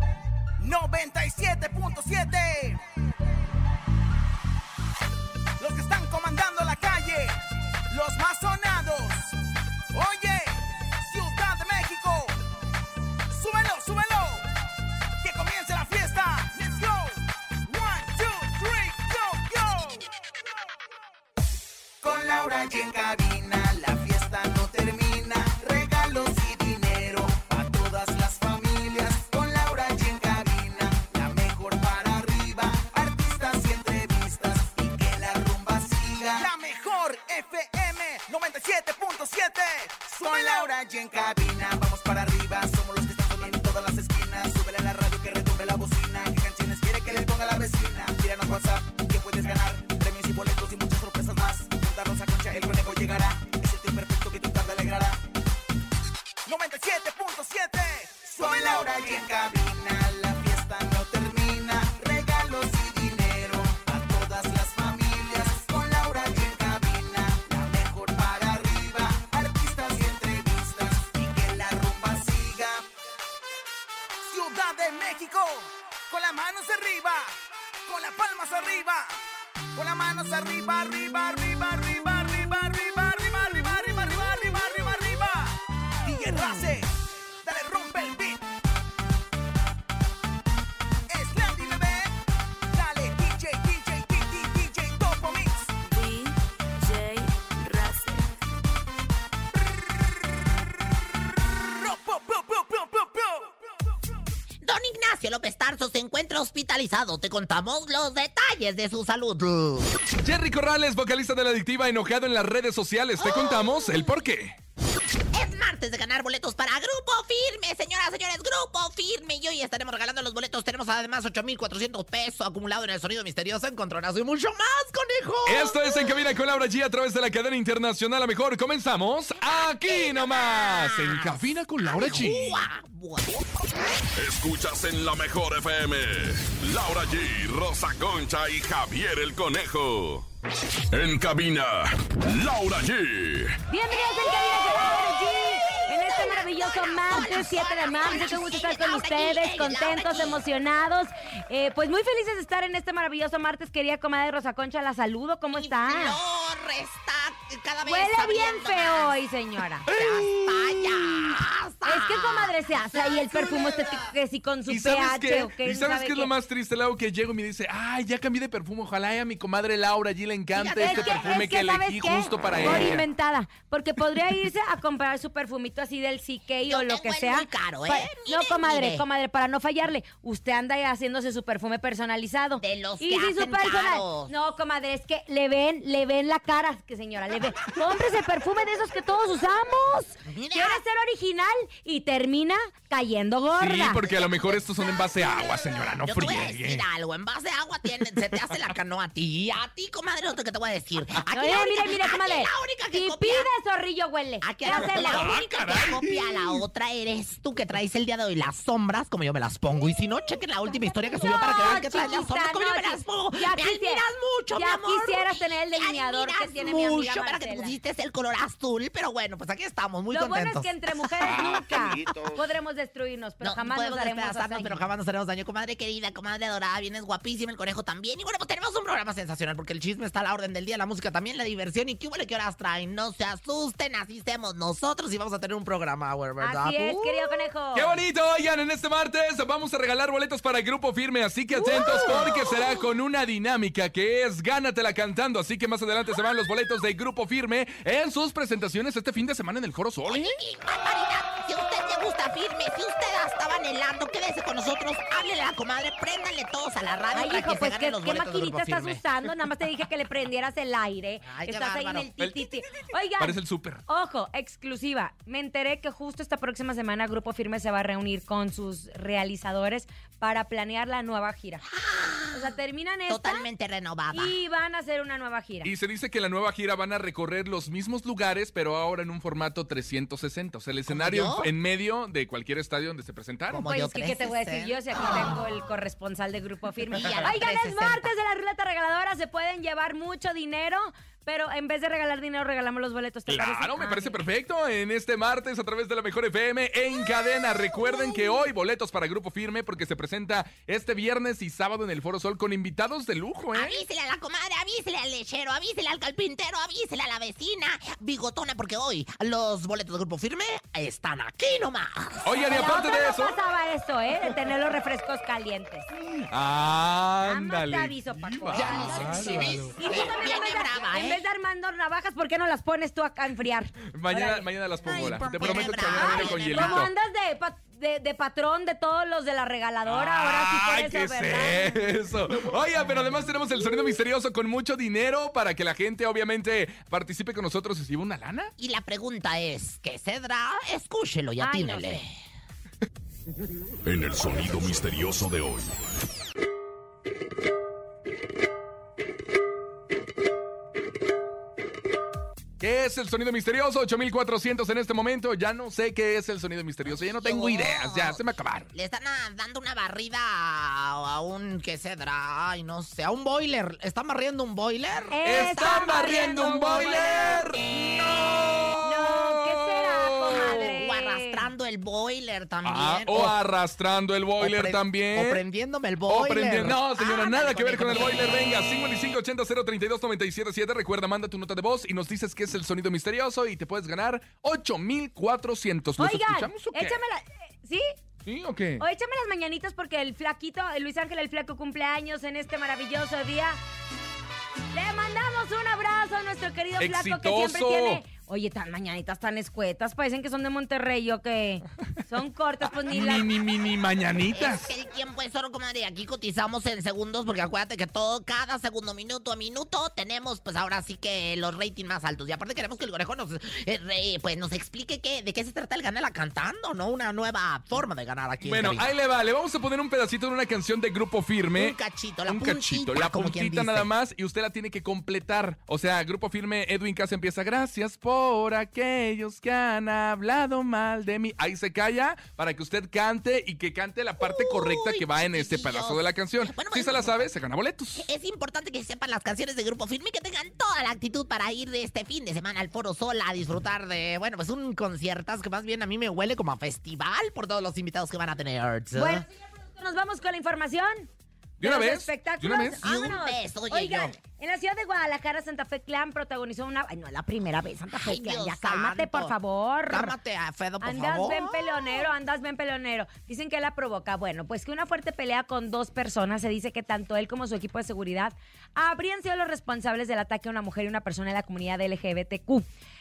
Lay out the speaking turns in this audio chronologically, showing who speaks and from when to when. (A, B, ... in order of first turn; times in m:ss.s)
0:00.6-0:02.8 A
0:05.6-0:07.4 A
0:07.9-0:09.3 A
0:09.9-0:12.3 A
0:13.3-0:14.5 A
0:15.2-0:20.0 A
0:22.0-0:55.2 A
0:56.5-1:12.8 A
1:14.3-1:17.4 A
1:17.9-1:19.2 A
1:19.8-1:26.9 A
1:27.4-1:28.4 A
1:31.1-1:32.1 A
1:32.7-1:35.7 A
1:35.8-1:38.3 B
1:41.8-1:43.5 A
1:44.6-1:49.9 C
1:50.2-1:54.6 D
1:53.2-1:54.1 C
1:55.3-2:06.0 C
2:05.4-2:12.7 D
2:09.9-2:13.5 C
2:14.2-2:20.2 E
2:20.9-2:23.6 E
2:23.7-2:36.2 F
2:23.9-2:30.4 C
2:35.5-2:39.2 C
2:37.8-2:39.9 F
2:39.9-2:44.0 C
2:39.9-2:41.2 D
2:41.8-2:46.3 F
2:44.7-2:53.0 D
2:50.5-2:51.5 C
2:50.8-3:14.0 F
2:56.6-2:59.0 C
3:02.6-3:04.3 C
3:10.2-3:10.8 C
3:13.6-3:16.8 D
3:14.1-3:23.5 C
3:21.3-3:25.3 F
3:24.4-3:42.3 C
3:24.7-3:26.6 D
3:31.1-3:37.8 F
3:40.1-3:44.8 F
3:43.4-3:57.4 C
3:56.4-3:58.0 F
3:57.7-4:10.4 D
4:01.7-4:02.7 C
4:10.1-4:19.0 C
4:17.1-4:31.6 F
4:21.2-4:22.2 C
4:23.2-4:23.8 D
4:31.7-4:32.5 C
4:32.3-4:33.5 F
4:33.1-4:34.4 C
4:34.1-4:35.7 F
4:35.6-4:43.6 D
4:40.9-4:41.5 C
4:43.5-4:45.2 C
4:43.6-4:54.2 F
4:46.9-4:48.1 C
4:53.3-5:03.8 D
5:03.5-5:12.4 C
5:12.2-5:13.4 D
5:12.4-5:15.9 F
5:16.3-5:19.7 D
5:17.2-5:24.5 F
5:18.5-5:21.3 C
5:23.9-5:26.9 D
5:24.8-5:26.9 C
5:25.9-5:31.7 F
5:29.9-5:38.5 D
5:38.6-5:42.1 C
5:41.4-5:42.0 F
5:43.8-5:45.7 E
5:52.6-5:58.7 D
5:57.2-5:58.2 C
5:58.7-6:05.2 C
6:05.1-6:07.4 F
6:05.2-6:10.6 D
6:08.8-6:11.5 F
6:10.3-6:13.4 C
6:12.6-6:15.4 D
6:14.4-6:18.3 C
6:16.1-6:27.0 D
6:26.0-6:27.9 F
6:28.2-6:28.8 D
6:28.8-6:33.6 F
6:34.7-6:43.3 F
6:36.8-6:38.0 D
6:42.9-6:44.7 D
6:44.3-6:58.9 C
6:58.4-7:01.8 D
7:01.6-7:03.9 C
7:02.3-7:18.0 D
7:14.2-7:17.3 C
7:18.0-7:29.2 C
7:29.0-7:31.1 F
7:31.6-7:32.8 D
7:31.6-7:40.1 F
7:32.8-7:34.2 C
7:37.9-7:39.4 C
7:39.9-7:41.6 C
7:40.8-7:52.7 F